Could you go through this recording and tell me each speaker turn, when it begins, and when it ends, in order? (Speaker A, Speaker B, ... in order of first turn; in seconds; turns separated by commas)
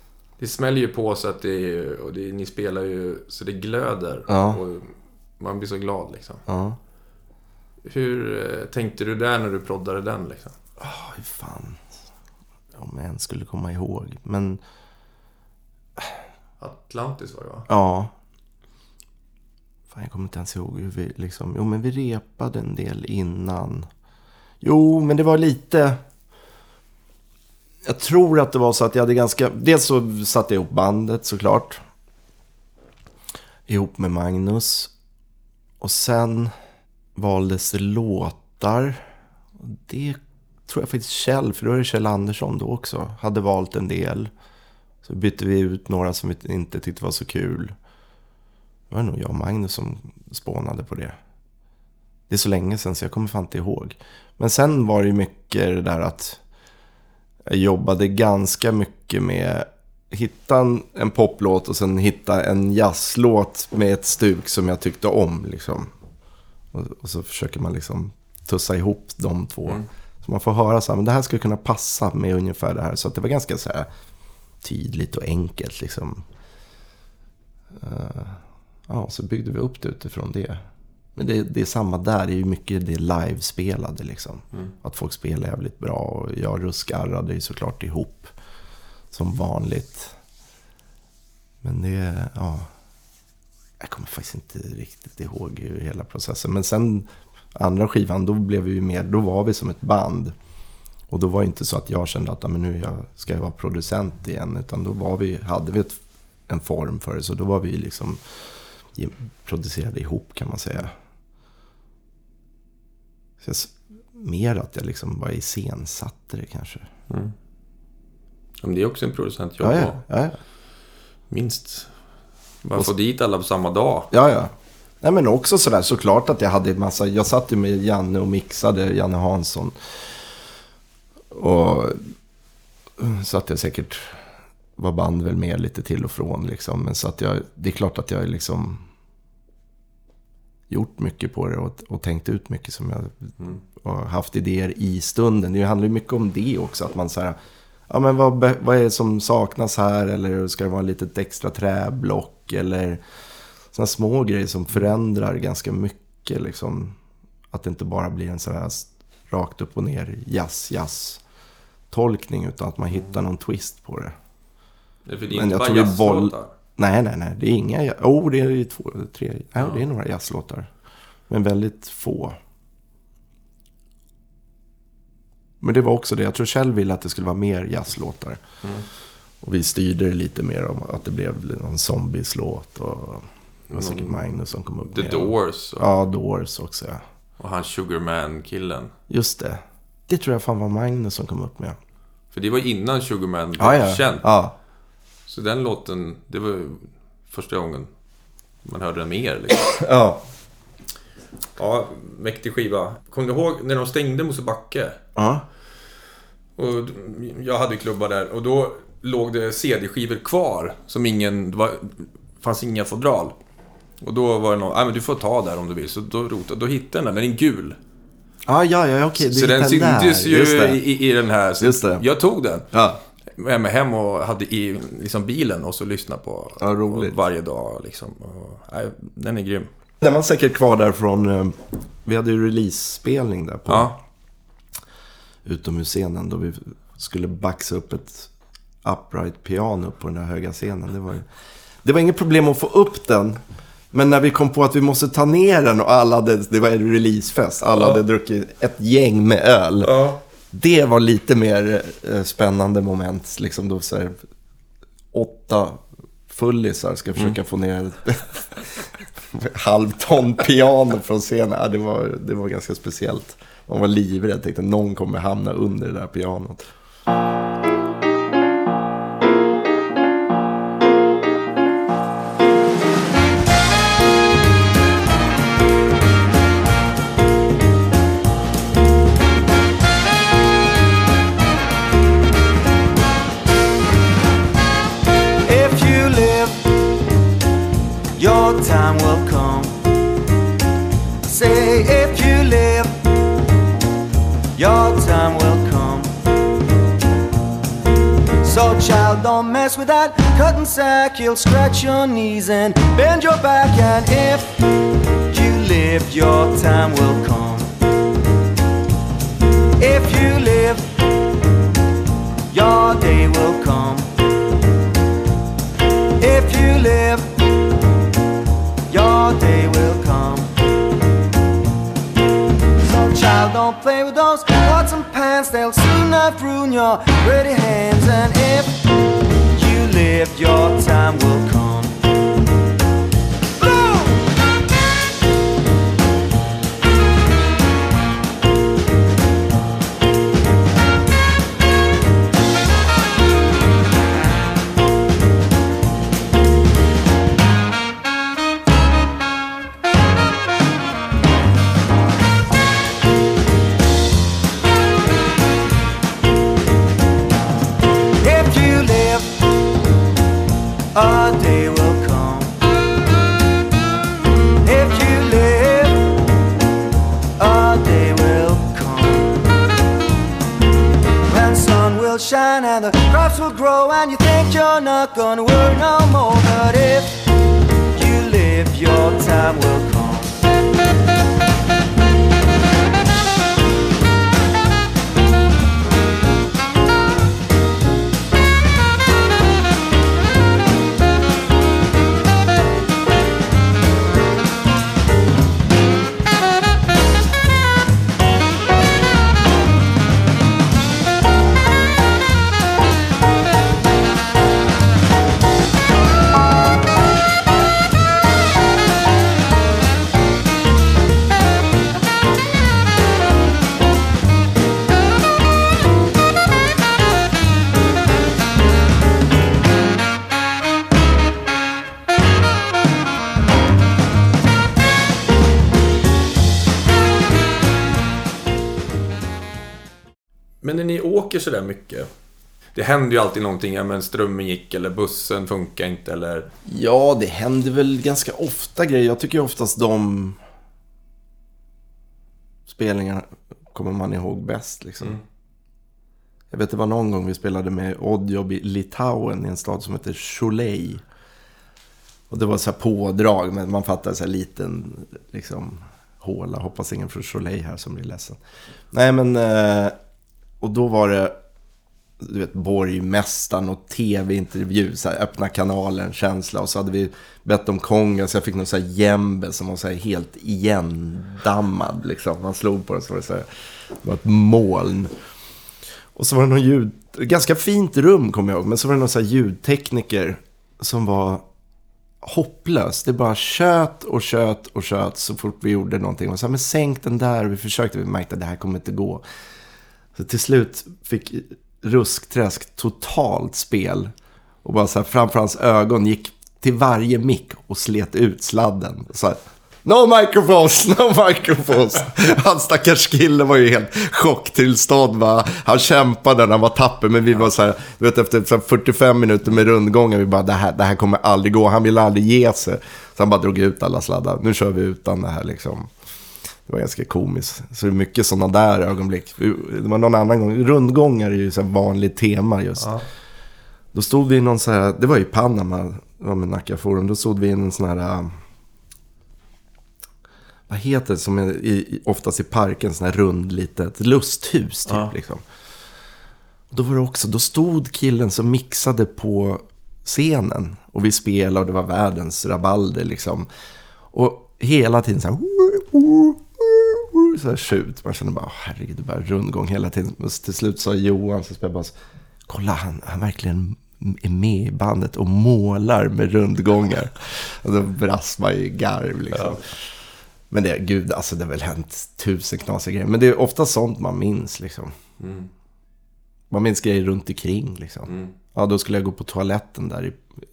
Speaker A: 0.4-6.4, Speaker B: 4.3-4.6, Speaker B: 6.5-6.8, Speaker A: 7.8-10.6, Speaker B: 10.8-11.9, Speaker B: 12.8-14.6, Speaker A: 16.6-17.7, Speaker B: 17.7-18.1, Speaker B: 19.9-23.9, Speaker B: 24.6-26.0, Speaker B: 27.9-31.8, Speaker B: 33.7-34.9, Speaker B: 35.8-36.5, Speaker B: 37.2-39.0, Speaker B: 39.6-44.3, Speaker B: 45.0-47.7, Speaker B: 48.9-51.2, Speaker B: 52.3-56.4, Speaker B: 57.5-65.9, Speaker B: 66.7-73.9, Speaker B: 74.6-76.2, Speaker B: 77.8-80.6, Speaker B: 81.2-88.3, Speaker B: 89.1-90.2, Speaker B: 91.6-92.7, Speaker B: 93.8-100.3, Speaker B: 101.1-108.2, Speaker B: 108.9-111.0, Speaker B: 113.4-116.9, Speaker A: 117.1-117.3, Speaker A: 118.6-120.0, Speaker B: 119.6-120.4, Speaker A: 121.3-121.9, Speaker A: 122.6-124.1, Speaker B: 124.1-129.8, Speaker B: 131.3-132.1, Speaker B: 133.0-134.2, Speaker B: 134.8-138.8, Speaker B: 140.7-147.4, Speaker B: 147.9-153.0, Speaker B: 153.7-157.0, Speaker B: 157.5-161.2, Speaker B: 161.9-164.1, Speaker A: 165.1-166.5, Speaker B: 165.3-170.7, Speaker B: 171.3-172.4, Speaker B: 175.6-178.4, Speaker B: 179.4-187.0, Speaker A: 183.7-184.2, Speaker A: 184.9-185.9, Speaker A: 187.4-188.9, Speaker B: 189.1-191.8, Speaker A: 192.3-194.3, Speaker B: 193.6-194.6, Speaker A: 195.3-197.9, Speaker A: 198.6-199.7, Speaker B: 199.6-200.2, Speaker A: 201.6-205.0, Speaker B: 205.2-205.4, Speaker A: 206.6-213.4, Speaker A: 214.0-217.8, Speaker B: 218.5-220.8, Speaker A: 219.2-222.7, Speaker B: 221.6-222.0, Speaker B: 222.7-223.0, Speaker A: 223.3-229.7, Speaker B: 226.6-227.2, Speaker B: 230.0-234.0, Speaker A: 233.7-234.0, Speaker B: 235.4-238.3, Speaker B: 238.8-241.3, Speaker B: 241.8-243.4, Speaker B: 243.9-249.9, Speaker A: 247.8-248.0, Speaker A: 249.8-250.2, Speaker B: 250.5-254.2, Speaker B: 255.1-258.6, Speaker B: 259.3-266.6, Speaker C: 285.4-286.8, Speaker C: 288.2-289.8, Speaker C: 291.2-293.0, Speaker C: 294.6-296.1, Speaker C: 298.4-304.6, Speaker C: 305.3-307.7, Speaker C: 309.8-310.9, Speaker C: 312.5-314.2, Speaker C: 316.2-317.4, Speaker C: 318.9-320.6, Speaker C: 322.8-328.8, Speaker C: 329.5-332.0, Speaker C: 333.8-334.1, Speaker C: 358.2-359.4, Speaker C: 360.9-362.6, Speaker C: 364.6-366.2, Speaker C: 367.4-369.5, Speaker C: 371.3-377.2, Speaker C: 377.9-380.4, Speaker A: 430.6-432.1, Speaker A: 432.7-436.5, Speaker B: 436.6-440.4, Speaker B: 442.7-445.2, Speaker B: 446.5-451.0, Speaker B: 452.3-458.4, Speaker B: 458.9-459.9, Speaker B: 460.6-461.4, Speaker B: 462.2-473.5, Speaker B: 474.0-475.1, Speaker B: 476.1-481.4, Speaker B: 482.2-489.2, Speaker B: 490.1-494.1, Speaker B: 494.6-515.9, Speaker B: 516.7-523.0, Speaker A: 522.8-523.0, Speaker B: 523.9-528.4, Speaker B: 530.7-535.4, Speaker A: 534.9-535.1, Speaker B: 536.7-543.5, Speaker B: 544.1-551.9, Speaker B: 552.5-559.7, Speaker A: 559.3-559.6, Speaker B: 560.5-564.9, Speaker A: 565.2-565.5, Speaker B: 566.5-570.2, Speaker A: 568.1-568.3